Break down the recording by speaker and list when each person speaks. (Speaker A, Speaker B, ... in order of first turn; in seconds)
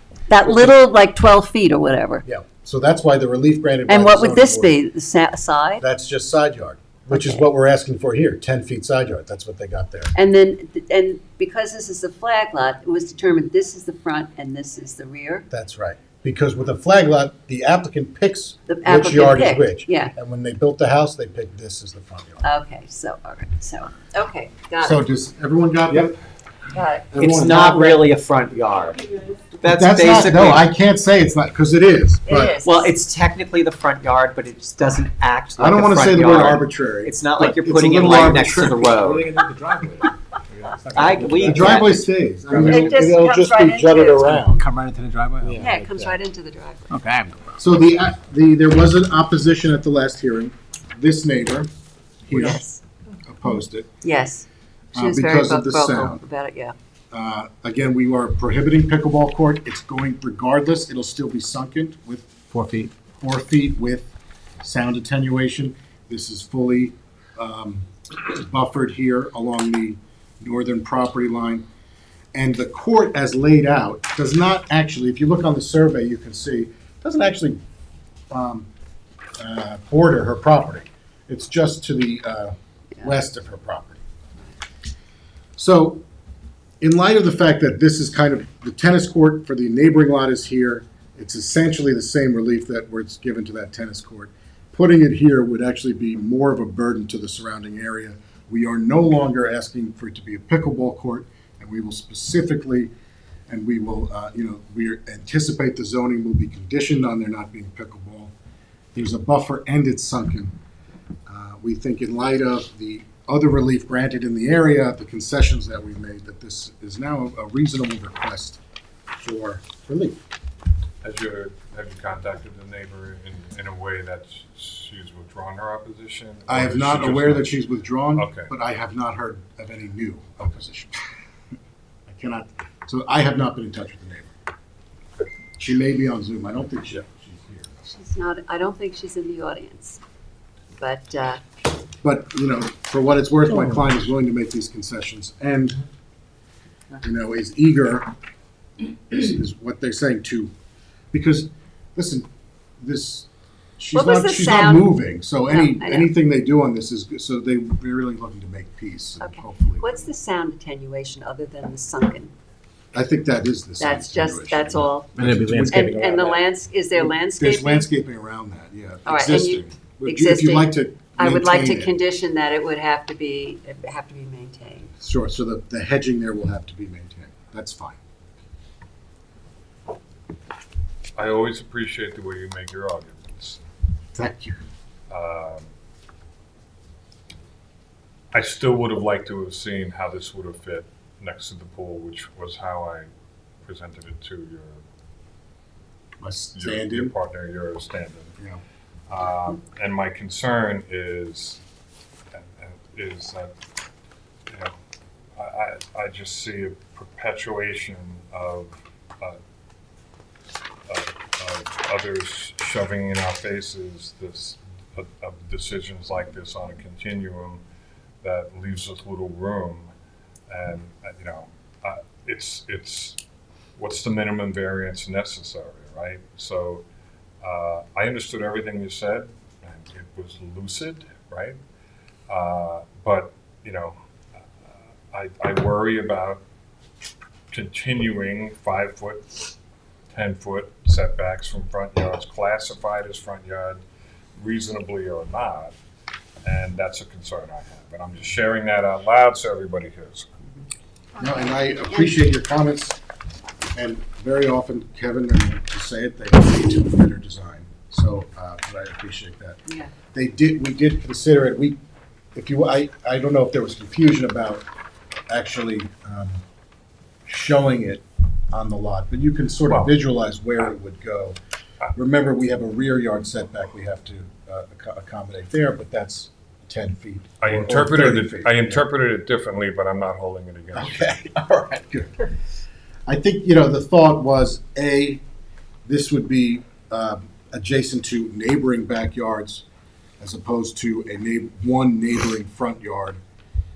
Speaker A: 0.3-2.2, 3.9-5.8, 7.1-7.4, 10.1-15.5, 18.7-20.1, 22.4-25.0, 26.7-27.8, 32.3-33.0, 42.7-44.3, 45.6-46.8, 52.5-52.8, 54.0-56.8, 137.9-140.0, 140.8-141.4, 153.9-156.1, 159.2-162.3, 163.8-165.1, 165.7-167.9, 169.1-174.9, 259.7-259.9
Speaker B: 0.4-0.8, 2.2-4.8, 5.8-10.1, 15.5-22.4, 24.8-26.2, 27.1-28.0, 29.7-32.6, 35.6-38.9, 41.4-44.7, 47.6-51.7, 52.2-52.6, 53.2-54.0, 54.9-56.2, 57.1-62.4, 63.2-71.7, 72.3-77.6, 78.3-78.7, 79.4-84.0, 85.6-86.0, 86.8-102.9, 103.5-108.3, 108.9-110.5, 111.3-118.6, 119.2-120.2, 126.5-131.0, 132.1-134.3, 135.6-137.9, 142.0-145.8, 147.0-148.1, 149.1-150.5, 151.1-152.3, 152.8-160.1, 162.9-166.4, 166.9-172.0, 175.0-178.0, 184.2-184.6, 196.2-197.1, 251.2-253.0, 253.8-259.6, 260.1-261.8, 262.4-264.7, 265.3-266.4, 267.3-271.4, 271.9-278.9, 280.7-282.3, 283.1-285.2, 285.9-289.6, 290.2-293.2
Speaker C: 27.2-29.0, 29.6-30.7, 32.6-39.3, 40.9-42.1, 42.6-43.1
Speaker D: 38.9-41.9, 42.5-42.9, 44.3-46.2, 46.9-47.4, 62.5-62.9, 165.2-166.1
Speaker E: 121.0-127.6, 128.2-128.5, 181.2-183.6, 185.1-185.7, 188.3-193.1, 193.6-194.8, 196.5-198.4, 199.1-201.6, 202.3-203.5, 204.5-204.8, 205.3-209.4, 210.9-217.6, 218.2-219.9, 220.5-223.2, 223.8-226.8, 227.4-231.6, 232.3-236.4, 237.5-239.6, 240.1-243.8, 244.4-245.7, 246.4-250.3, 277.4-281.1